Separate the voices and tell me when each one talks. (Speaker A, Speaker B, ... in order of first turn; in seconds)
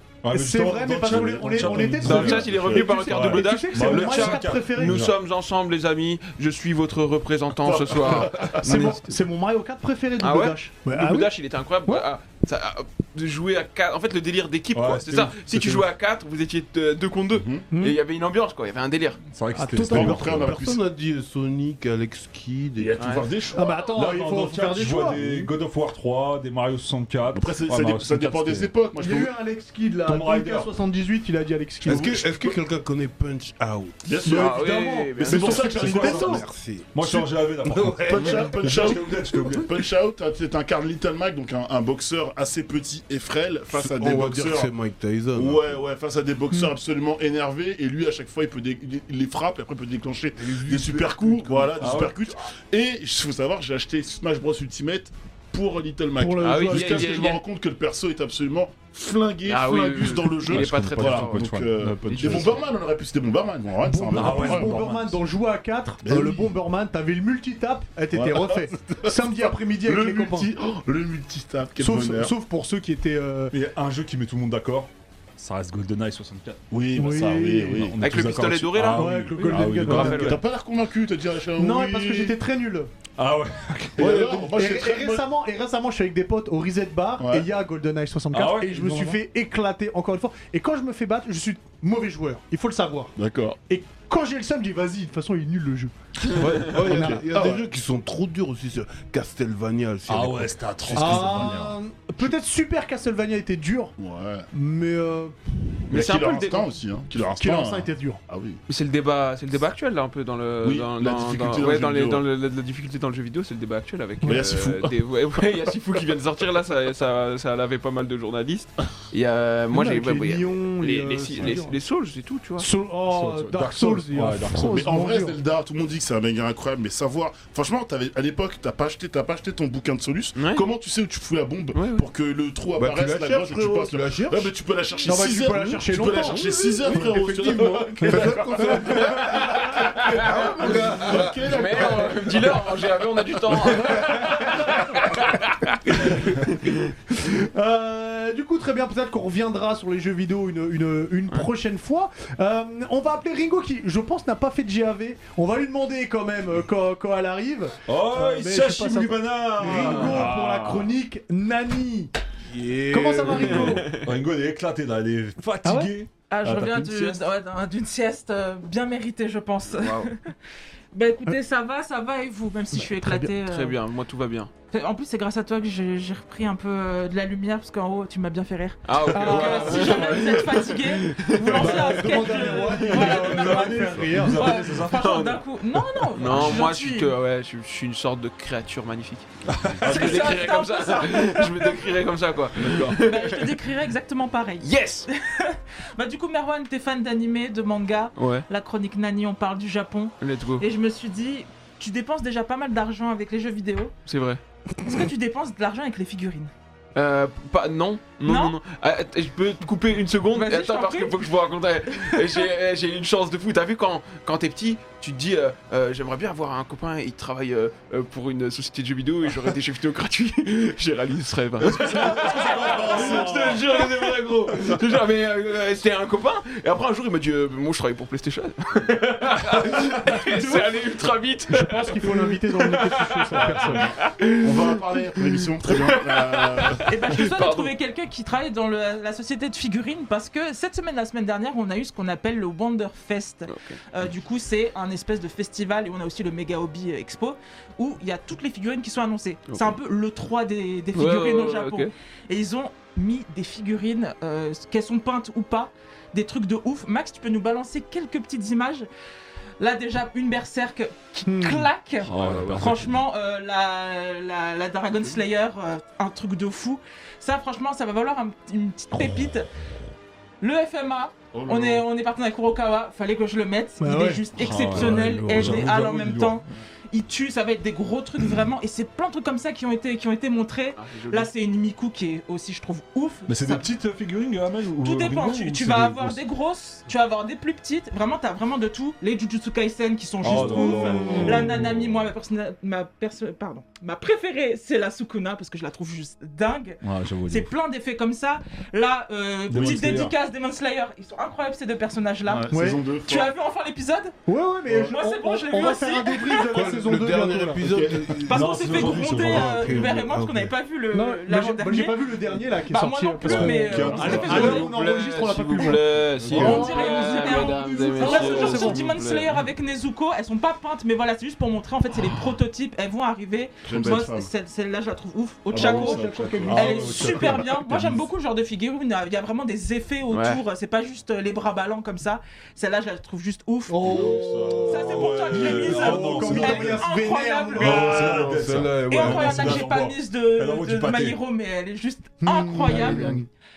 Speaker A: 0.2-5.2, 14.7-15.9, 19.3-20.7, 23.9-28.7, 30.1-30.7, 35.5-39.7, 51.8-52.2, 60.5-62.6, 64.1-65.2, 73.5-76.6, 77.7-80.4, 83.2-84.4, 88.3-89.2, 100.1-101.8, 123.1-124.8, 157.9-160.8, 163.9-167.2, 182.9-185.2, 189.5-190.4, 221.6-224.1, 229.6-229.9, 262.0-263.0, 274.4-276.4, 283.3-286.2, 290.2-291.8, 296.8-297.5, 299.5-300.1, 308.3-309.9, 313.2-314.7, 326.5-328.0, 334.7-336.9, 337.6-341.2
Speaker B: 0.3-5.0, 8.6-11.3, 17.7-18.0, 19.6-20.4, 23.6-25.2, 29.0-32.6, 34.2-36.5, 56.2-57.2, 63.8-70.5, 71.8-73.5, 77.0-77.8, 79.0-80.4, 81.6-82.9, 84.0-93.2, 93.7-97.2, 101.0-104.0, 104.5-105.6, 107.4-108.2, 119.7-121.8, 122.6-125.4, 135.0-136.5, 138.0-138.4, 147.1-162.1, 162.9-163.9, 165.6-165.9, 172.7-173.3, 179.1-179.9, 181.5-184.4, 230.3-230.8, 231.5-233.9, 261.3-261.7, 273.8-274.2, 290.9-291.5, 302.5-302.8, 304.3-307.6, 310.9-318.9, 325.6-327.0, 333.7-338.3, 342.2-343.3
Speaker C: 1.1-1.7, 7.6-8.9, 17.3-17.6, 19.9-20.8, 22.8-23.9, 27.3-29.3, 34.0-36.4, 38.1-44.7, 45.4-64.7, 66.0-66.5, 68.1-72.3, 76.7-78.0, 79.6-82.4, 84.0-85.3, 87.2-87.5, 93.2-93.6, 96.8-97.7, 101.1-101.4, 104.0-104.5, 105.9-108.6, 110.6-112.2, 114.3-115.0, 124.6-139.2, 140.2-142.8, 233.5-236.9, 271.3-271.9, 302.2-303.3, 307.6-308.2, 313.7-314.6, 316.2-316.7, 323.7-324.3, 325.5-327.4, 333.8-335.1
Speaker D: 2.0-9.0, 10.2-19.2, 23.0-23.3, 34.2-35.6, 56.4-57.4, 59.5-62.7, 78.0-80.4, 105.9-106.7, 108.7-122.7, 130.4-130.7, 131.7-132.1, 138.9-146.8, 163.6-164.1, 169.7-170.1, 173.4-174.5, 178.9-182.5, 184.4-189.3, 189.8-193.6, 194.6-195.1, 198.2-198.4, 200.2-200.7, 204.1-204.4, 206.9-237.7, 243.5-243.8, 249.5-249.8, 250.9-251.9, 262.1-262.7, 280.8-281.3, 314.3-319.5, 330.1-330.4
Speaker E: 20.4-23.0, 25.1-25.5, 31.9-34.0, 36.3-39.0, 43.7-45.8, 50.4-52.1, 96.3-101.3, 132.8-134.5, 136.2-141.9, 162.5-163.9, 306.5-310.5, 337.6-339.7
Speaker F: 166.3-170.3, 170.9-173.8, 174.7-187.2, 189.8-191.8, 192.9-203.9, 204.8-206.5, 208.2-208.6, 210.3-211.2, 236.9-258.9, 259.6-269.5, 270.4-283.7, 284.8-304.2, 304.8-306.8, 308.3-314.8, 316.3-334.0, 334.7-338.0, 338.8-343.2